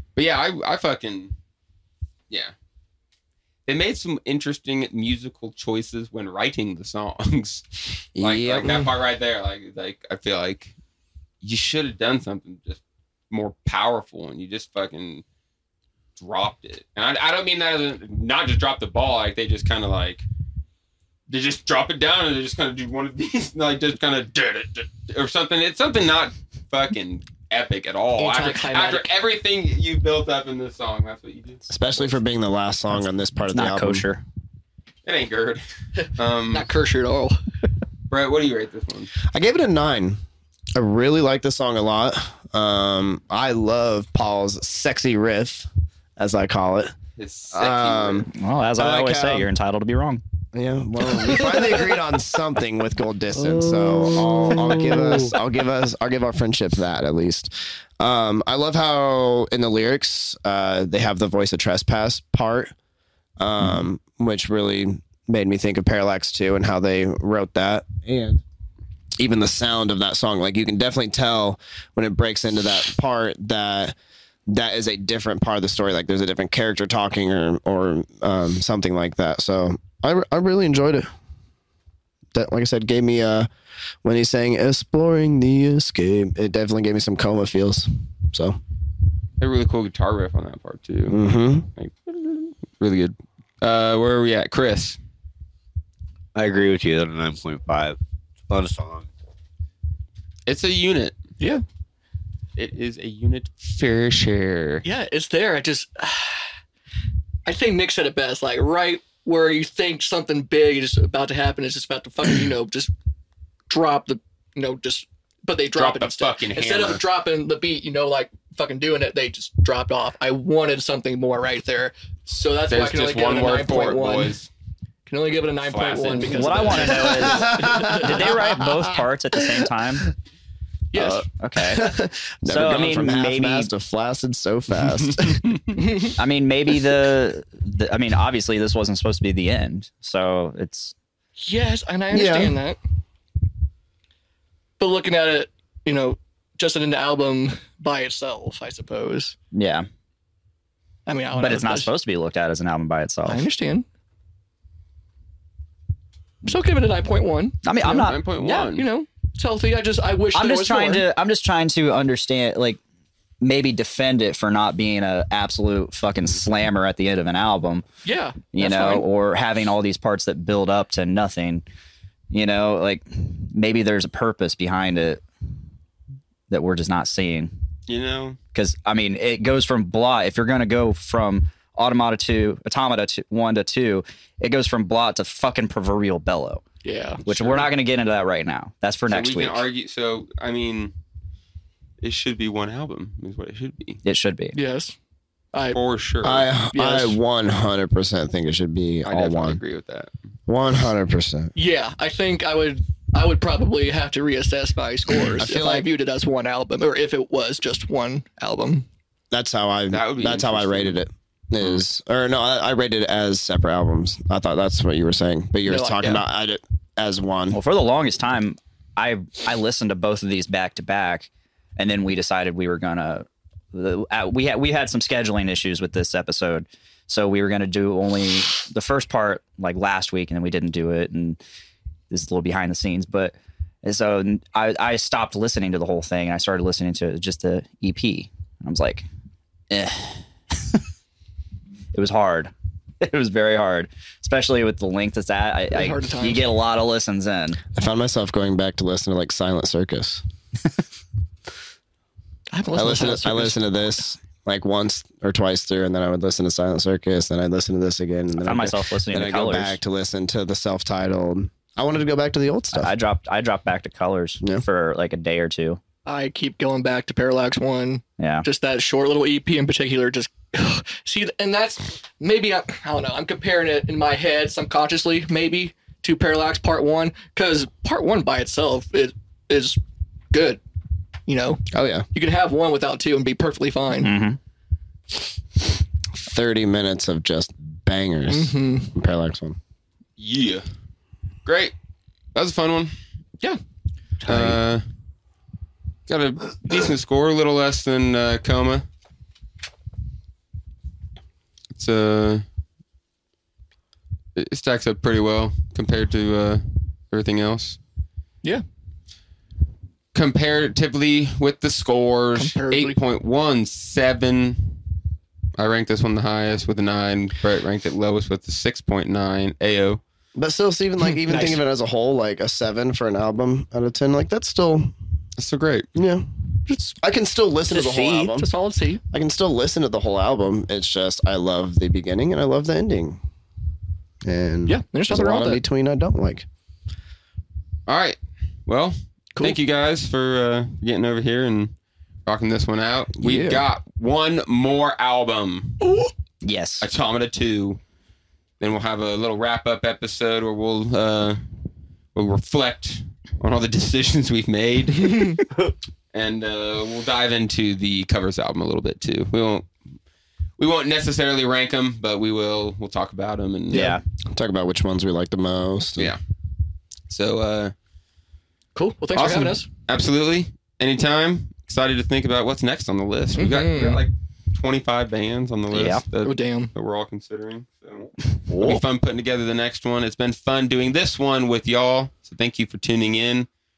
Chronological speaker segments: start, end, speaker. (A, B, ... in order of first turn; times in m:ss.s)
0:00.2-0:01.3 A
0:03.7-0:07.6 A
0:08.2-0:08.8 B
0:08.2-0:10.7 A
0:11.4-0:15.2 A
0:16.2-0:20.3 A
0:21.3-0:32.2 A
0:28.2-0:29.1 C
0:31.7-0:34.1 B
0:33.5-0:34.2 D
0:35.0-0:36.7 A
0:36.5-0:37.4 C
0:38.1-0:39.1 A
0:39.2-0:40.2 B
0:40.8-0:47.0 B
0:47.2-0:48.3 A
0:47.5-0:49.5 B
0:48.3-0:50.2 D
0:50.5-1:02.7 B
0:53.7-0:55.0 C
1:03.4-1:08.4 B
1:09.2-1:14.0 B
1:14.5-1:21.1 B
1:22.3-1:23.5 B
1:24.0-1:28.6 B
1:29.4-1:31.2 A
1:31.1-1:31.7 B
1:31.8-1:35.0 A
1:36.4-1:38.0 E
1:38.5-1:39.1 E
1:40.5-1:41.2 A
1:42.6-1:44.9 A
1:44.8-1:46.5 C
1:47.4-1:52.9 C
1:53.7-2:04.4 C
1:55.7-1:57.0 A
2:02.7-2:04.5 A
2:05.1-2:08.3 C
2:05.6-2:06.9 A
2:06.3-2:10.1 D
2:06.9-2:09.0 B
2:10.9-2:11.3 C
2:11.0-2:15.5 B
2:11.4-2:11.9 D
2:12.5-2:13.7 D
2:15.8-2:16.2 C
2:16.2-2:20.9 D
2:21.4-2:22.8 C
2:22.1-2:22.6 B
2:24.8-2:29.4 C
2:29.5-2:29.9 D
2:31.1-2:31.9 C
2:31.4-2:33.4 D
2:33.3-2:33.8 C
2:36.4-2:41.1 C
2:37.6-2:38.2 D
2:37.9-2:38.9 A
2:40.3-2:42.8 D
2:43.4-2:47.8 D
2:48.0-2:49.1 C
2:48.5-2:51.6 D
2:52.3-2:55.2 D
2:56.5-2:57.5 D
2:57.9-2:58.4 A
2:58.5-3:06.6 D
3:06.8-3:07.6 C
3:07.2-3:09.6 D
3:09.1-3:10.9 A
3:12.0-3:14.0 A
3:14.0-3:14.6 D
3:14.6-3:15.0 C
3:15.7-3:16.5 A
3:16.2-3:19.6 B
3:16.7-3:17.2 C
3:19.1-3:20.1 A
3:20.5-3:21.5 B
3:21.6-3:28.9 C
3:25.4-3:25.9 B
3:29.3-3:37.6 B
3:29.9-3:31.0 A
3:35.7-3:36.2 C
3:37.5-3:51.4 D
3:52.1-3:59.1 D
3:59.7-4:00.8 D
4:01.9-4:07.6 D
4:05.7-4:06.5 C
4:07.7-4:10.2 B
4:12.5-4:13.7 C
4:12.8-4:22.9 B
4:18.4-4:19.8 D
4:22.7-4:25.8 D
4:26.1-4:39.8 C
4:28.2-4:28.5 D
4:40.3-4:40.6 C
4:41.3-4:44.1 C
4:41.7-4:42.1 B
4:44.0-4:44.4 D
4:46.2-4:49.6 B
4:48.3-4:48.9 C
4:50.2-4:50.7 A
4:51.4-4:51.7 A
4:52.4-4:53.0 A
4:54.2-4:54.6 C
4:54.3-4:54.8 A
4:56.1-4:58.8 A
5:01.8-5:02.4 A
5:04.4-5:07.8 A
5:10.1-5:14.8 A
5:12.4-5:13.0 C
5:15.6-5:20.0 A
5:20.4-5:24.9 B
5:21.2-5:21.6 C
5:25.4-5:25.9 A
5:26.0-5:26.3 B
5:26.7-5:27.0 C
5:27.0-5:28.5 B
5:27.7-5:29.0 C
5:29.1-5:33.2 B
5:34.2-5:36.5 B
5:34.7-5:35.6 C
5:37.9-5:41.7 A
5:42.3-5:45.9 A
5:43.2-5:43.6 B
5:45.8-5:46.1 C
5:46.4-5:46.9 D
5:46.8-5:47.8 A
5:48.6-5:51.4 A
5:52.2-5:55.5 A
5:56.1-5:59.7 A
6:00.6-6:04.0 A
6:03.7-6:04.0 D
6:03.7-6:04.0 C
6:04.3-6:06.1 B
6:07.1-6:07.7 A
6:08.8-6:09.7 C
6:09.2-6:23.5 A
6:13.4-6:14.0 C
6:15.7-6:16.0 D
6:16.2-6:16.7 C
6:18.5-6:18.8 E